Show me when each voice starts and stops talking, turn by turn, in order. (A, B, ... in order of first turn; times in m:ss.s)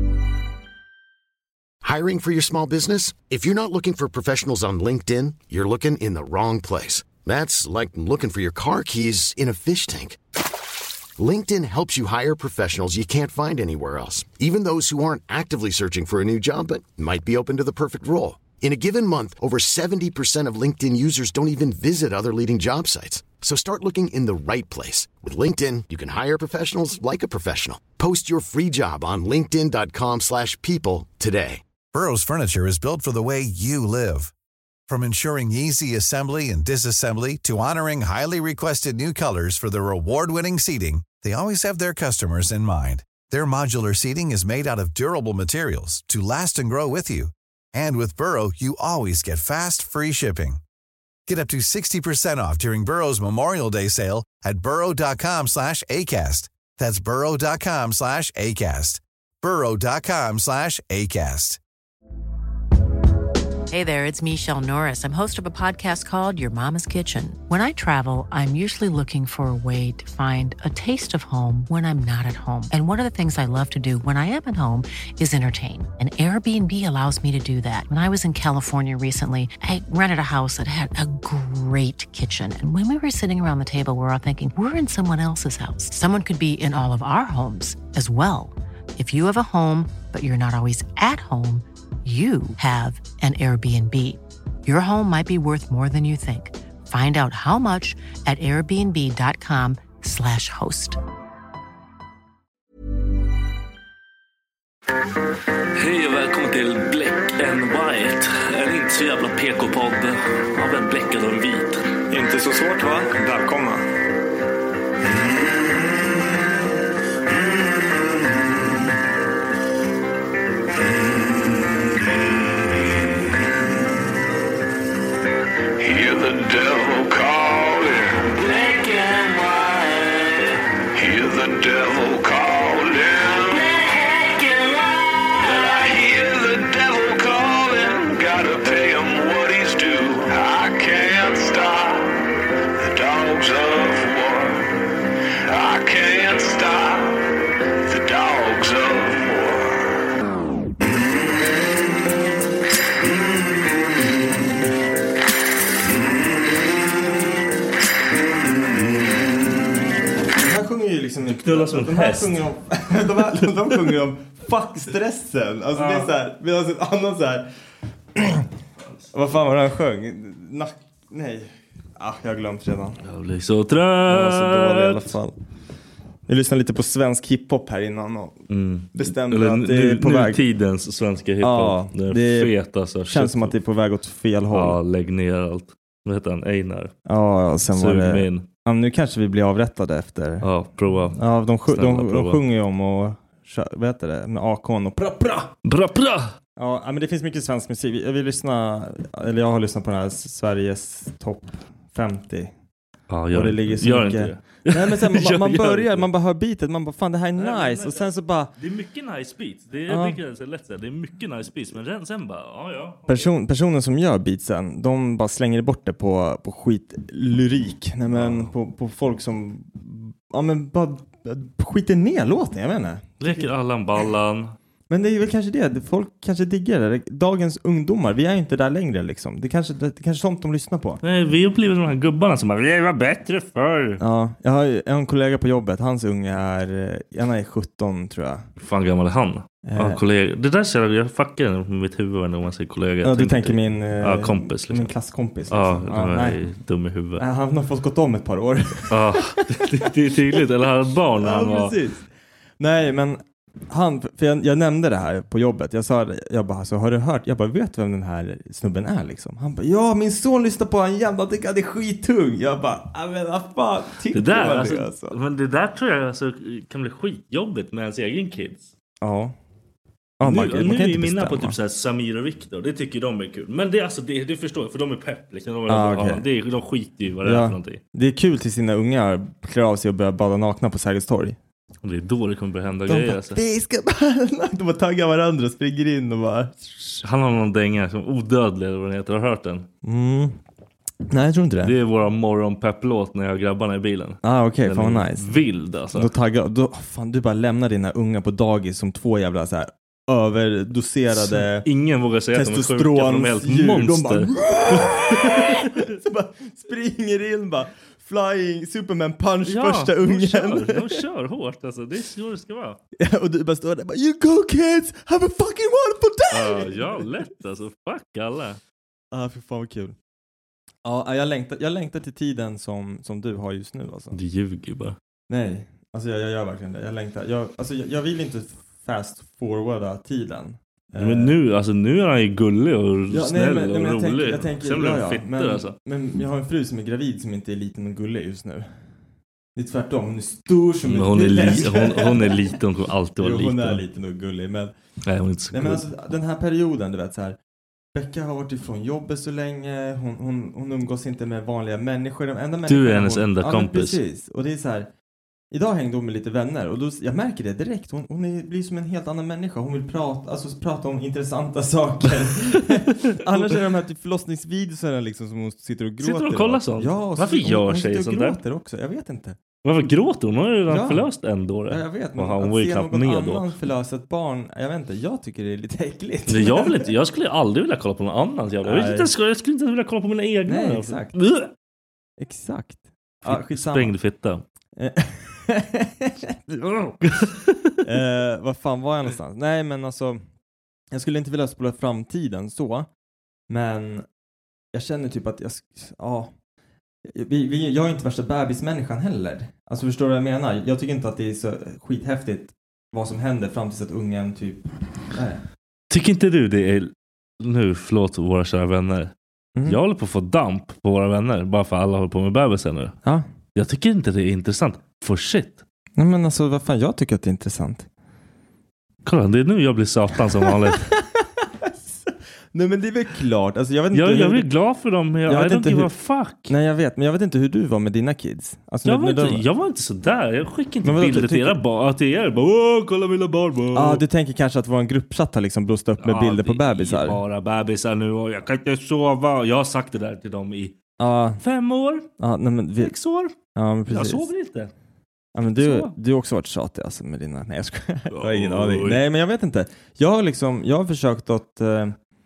0:01.8-0:10.2 A
0:11.2-0:31.6 A
0:31.9-0:34.3 B
0:34.9-0:50.6 B
0:51.3-1:01.6 B
1:03.7-1:41.0 C
1:45.8-1:51.8 D
1:52.1-1:53.8 E
2:02.5-2:03.3 F
2:05.8-2:24.8 F
2:25.3-2:29.9 F
2:40.3-2:47.5 E
2:41.2-2:42.4 D
2:43.5-2:43.8 D
2:45.8-2:46.1 D
2:48.2-2:48.5 E
2:49.1-2:53.0 E
2:53.0-2:55.1 D
2:54.1-2:55.4 E
2:56.3-3:00.4 E
2:58.5-3:03.6 D
3:01.4-3:02.5 E
3:03.1-3:04.8 E
3:04.5-3:06.9 D
3:07.1-3:10.5 E
3:07.7-3:08.5 D
3:10.4-3:12.4 D
3:11.2-3:15.5 E
3:15.6-3:16.4 D
3:16.6-3:22.5 E
3:23.1-3:26.1 D
3:23.3-3:28.5 E
3:27.4-3:33.3 D
3:29.9-3:30.2 E
3:33.1-3:43.5 E
3:38.1-3:38.5 D
3:43.2-3:44.6 D
3:44.9-3:51.0 E
3:51.0-3:54.0 D
3:54.0-3:58.4 E
3:58.6-4:04.9 D
3:59.6-4:00.0 E
4:03.0-4:06.4 E
4:05.5-4:07.2 D
4:07.2-4:09.4 E
4:08.9-4:11.8 D
4:11.2-4:12.1 E
4:12.6-4:25.2 E
4:24.1-4:28.7 D
4:29.0-4:29.4 E
4:30.2-4:31.6 E
4:30.2-4:37.8 D
4:35.7-4:36.2 E
4:37.2-4:41.4 E
4:41.8-4:43.4 D
4:42.9-4:46.7 E
4:47.0-4:49.7 D
4:49.8-4:50.4 E
4:51.1-4:51.8 E
4:51.6-4:56.1 D
4:54.2-4:55.3 E
4:55.9-5:01.7 E
5:01.1-5:05.9 D
5:02.3-5:11.0 E
5:09.4-5:12.8 D
5:13.0-5:17.3 E
5:16.3-5:18.6 D
5:19.1-5:20.0 E
5:20.8-5:24.2 E
5:24.1-5:25.0 D
5:25.3-5:31.3 E
5:31.0-5:35.8 D
5:33.1-5:38.7 E
5:39.6-5:42.6 E
5:40.8-5:43.8 D
5:43.2-5:44.7 E
5:45.0-5:45.8 D
5:45.5-5:47.4 E
5:47.9-5:54.9 E
5:52.7-5:54.0 D
5:55.5-6:09.4 E
6:02.4-6:03.6 D
6:06.0-6:08.4 D
6:09.6-6:13.5 D
6:10.7-6:11.1 E
6:11.7-6:16.9 E
6:16.3-6:21.5 D
6:18.6-6:19.1 E
6:20.5-6:21.1 E
6:22.2-6:23.9 E
6:23.2-6:24.4 D
6:24.8-6:27.0 E
6:27.0-6:27.8 D
6:27.8-6:30.2 E
6:30.9-6:32.9 E
6:33.5-6:34.1 E
6:34.7-6:36.3 E
6:37.0-6:45.4 E
6:45.9-6:49.1 D
6:49.6-6:49.8 E
6:49.7-6:53.0 D
6:53.6-6:55.6 D
6:56.0-6:57.9 E
6:59.0-7:00.9 D
7:00.4-7:04.5 E
7:03.9-7:06.5 D
7:05.3-7:05.9 E
7:06.5-7:09.4 E
7:08.8-7:14.0 D
7:10.8-7:11.6 E
7:13.7-7:17.2 E
7:16.0-7:20.8 D
7:21.0-7:21.4 E
7:21.4-7:22.1 D
7:22.2-7:22.9 E
7:22.8-7:23.3 D
7:23.6-7:24.3 E
7:23.9-7:24.7 D
7:25.4-7:32.0 E
7:25.6-7:26.0 D
7:28.1-7:29.0 D